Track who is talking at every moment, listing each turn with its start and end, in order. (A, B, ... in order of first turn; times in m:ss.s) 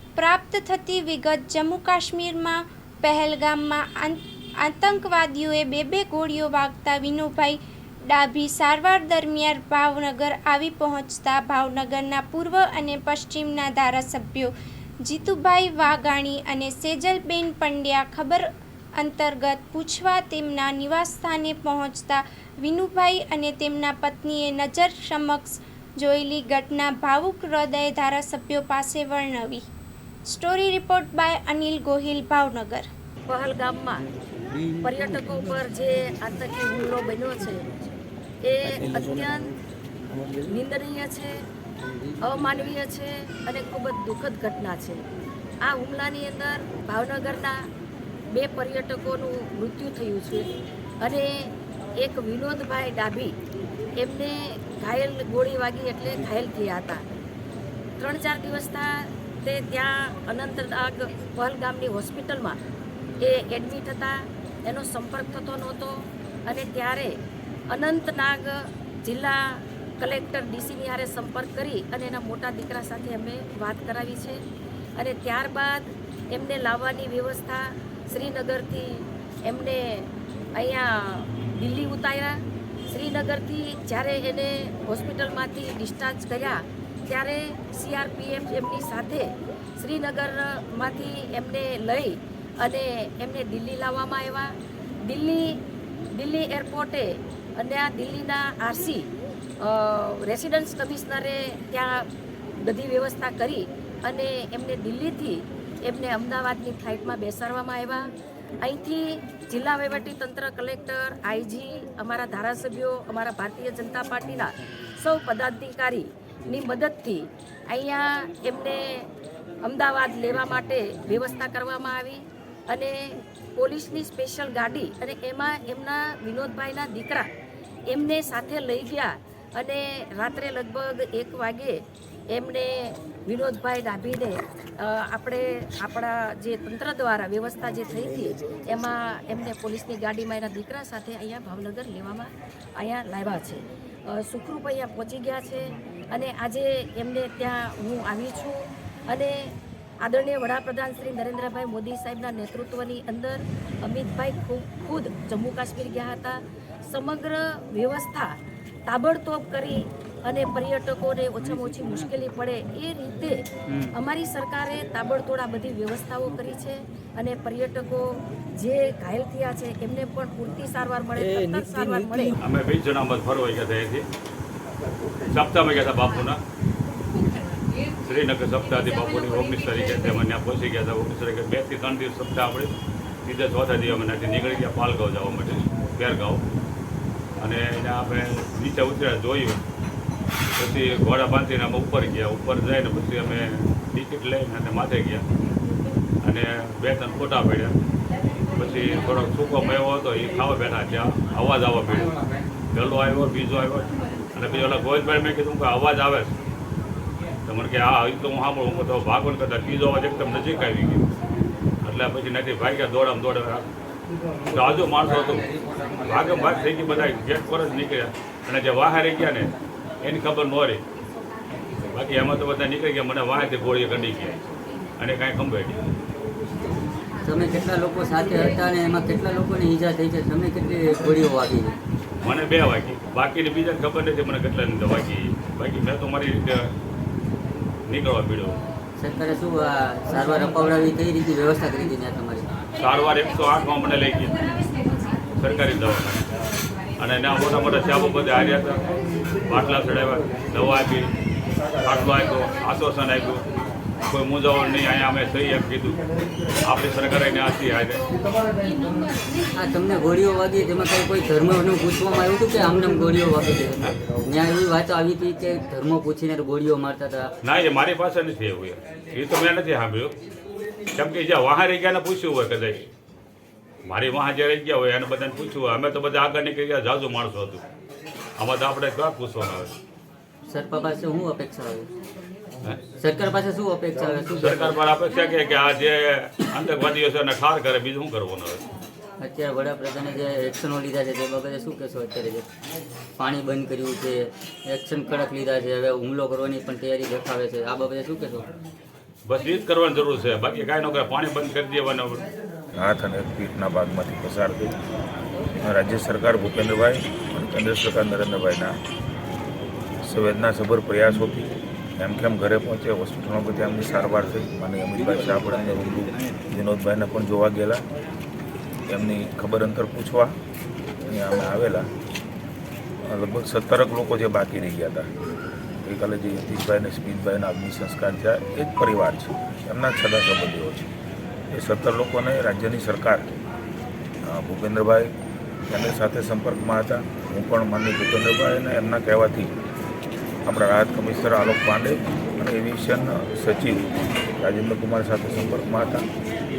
0:00.2-0:07.6 A
0:08.1-0:14.5 A
0:15.0-0:29.6 A
0:30.3-0:32.9 A
0:33.3-0:34.0 B
0:34.8-0:37.7 B
0:38.4-0:39.5 B
0:40.4-0:41.3 B
0:42.2-0:45.0 B
0:45.6-0:47.6 B
0:48.3-0:50.5 B
0:51.0-0:51.4 B
0:52.0-0:53.3 B
0:54.0-0:57.0 B
0:58.0-1:02.6 B
1:03.2-1:05.9 B
1:06.5-1:07.1 B
1:07.7-1:14.4 B
1:15.0-1:22.3 B
1:22.9-1:34.5 B
1:35.0-1:35.6 B
1:36.1-1:39.1 B
1:39.6-1:42.0 B
1:42.6-1:48.1 B
1:48.6-1:59.1 B
1:59.6-2:07.2 B
2:07.9-2:11.8 B
2:12.3-2:28.6 B
2:29.1-2:29.5 B
2:30.0-2:38.3 B
2:38.8-2:48.0 B
2:48.6-2:52.3 B
2:52.4-2:54.0 C
2:55.3-2:56.4 C
2:58.0-3:02.7 C
3:03.2-3:06.4 C
3:07.4-3:09.6 C
3:10.6-3:15.2 C
3:16.2-3:17.7 C
3:18.6-3:22.1 C
3:22.7-3:26.3 C
3:27.4-3:31.1 C
3:31.8-3:33.7 C
3:34.5-3:35.5 C
3:36.0-3:40.8 C
3:41.9-3:44.4 C
3:45.0-3:45.8 C
3:47.2-3:51.7 D
3:52.2-3:56.7 C
3:57.9-3:58.6 C
3:59.0-4:02.5 D
4:02.8-4:04.4 C
4:05.4-4:06.3 C
4:07.0-4:08.9 C
4:09.4-4:11.1 C
4:11.8-4:13.4 C
4:14.1-4:16.0 C
4:16.6-4:18.0 C
4:19.5-4:27.3 D
4:27.4-4:30.1 C
4:30.9-4:32.9 C
4:33.8-4:37.6 C
4:38.4-4:39.7 C
4:40.5-4:41.9 D
4:43.0-4:44.8 D
4:44.4-4:48.6 C
4:49.2-4:52.4 D
4:53.2-4:58.5 D
4:59.2-5:02.2 C
5:02.8-5:04.8 E
5:05.6-5:08.8 E
5:10.0-5:17.8 E
5:18.9-5:20.4 E
5:21.0-5:21.9 E
5:23.0-5:25.1 E
5:25.8-5:30.9 E
5:31.5-5:33.4 E
5:34.2-5:35.1 E
5:35.7-5:39.5 E
5:40.4-5:43.9 E
5:44.4-5:46.0 E